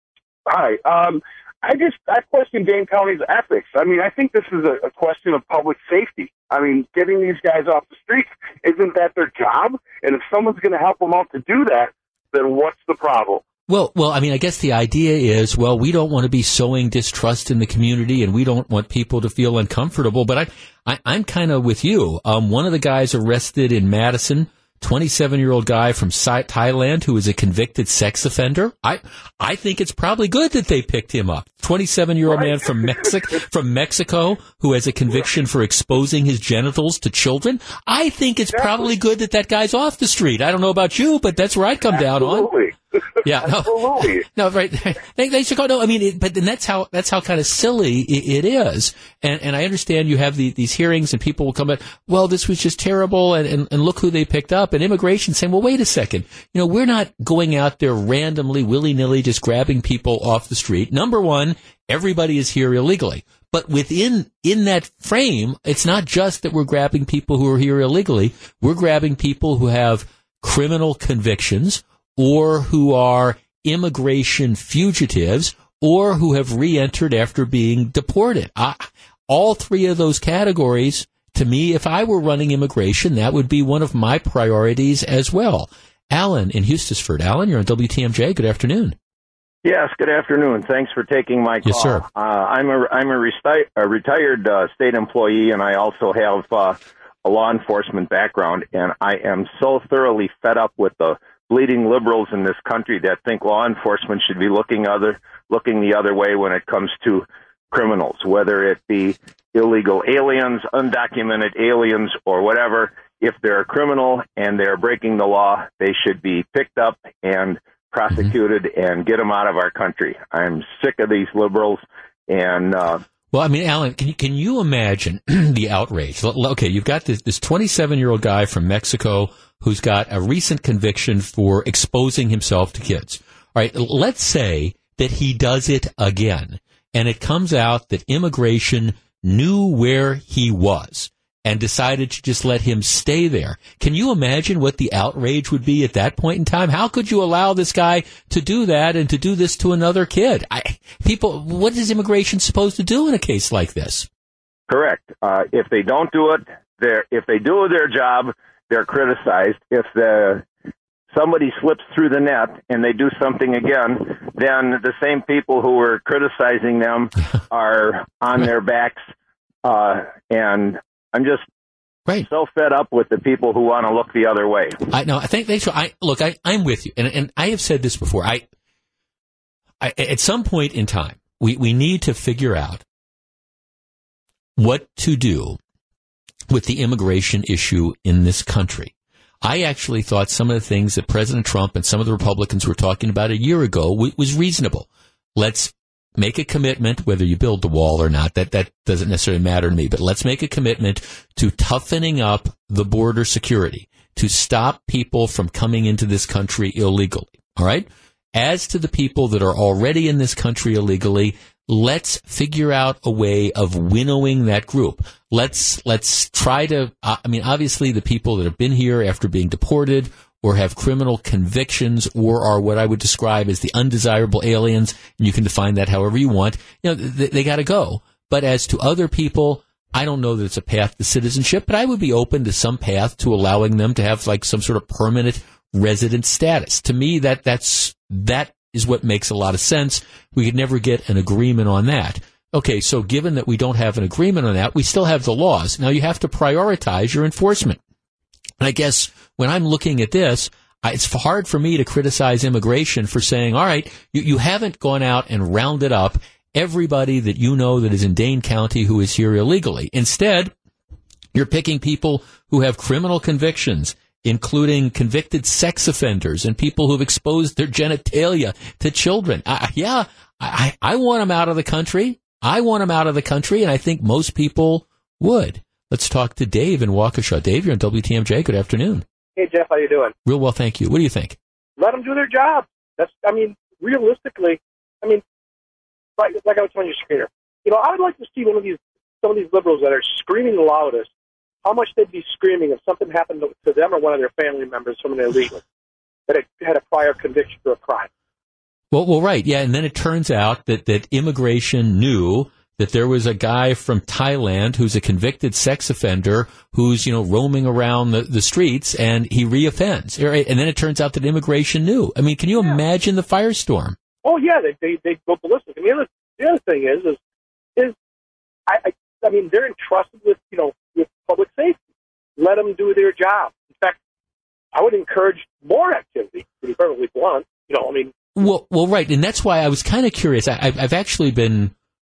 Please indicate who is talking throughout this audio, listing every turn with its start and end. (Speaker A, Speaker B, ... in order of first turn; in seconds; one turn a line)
Speaker A: 0.5-13.4
Speaker B: 13.7-42.6
Speaker A: 42.0-42.7
Speaker B: 43.2-89.0
Speaker A: 43.4-44.3
Speaker C: 89.6-123.0
Speaker B: 91.7-92.0
Speaker B: 123.3-154.1
Speaker C: 154.7-160.4
Speaker C: 161.1-169.0
Speaker C: 169.6-171.4
Speaker C: 172.2-174.8
Speaker B: 174.9-178.4
Speaker B: 179.8-182.8
Speaker B: 184.6-185.6
Speaker B: 186.5-247.8
Speaker B: 248.6-260.5
Speaker B: 261.3-279.1
Speaker D: 279.4-280.1
Speaker B: 280.2-281.4
Speaker D: 281.8-285.2
Speaker D: 286.2-291.1
Speaker D: 291.6-295.6
Speaker D: 296.3-298.1
Speaker B: 298.9-314.0
Speaker D: 314.2-317.2
Speaker D: 318.7-321.8
Speaker D: 322.4-324.0
Speaker D: 324.7-328.1
Speaker B: 328.4-331.7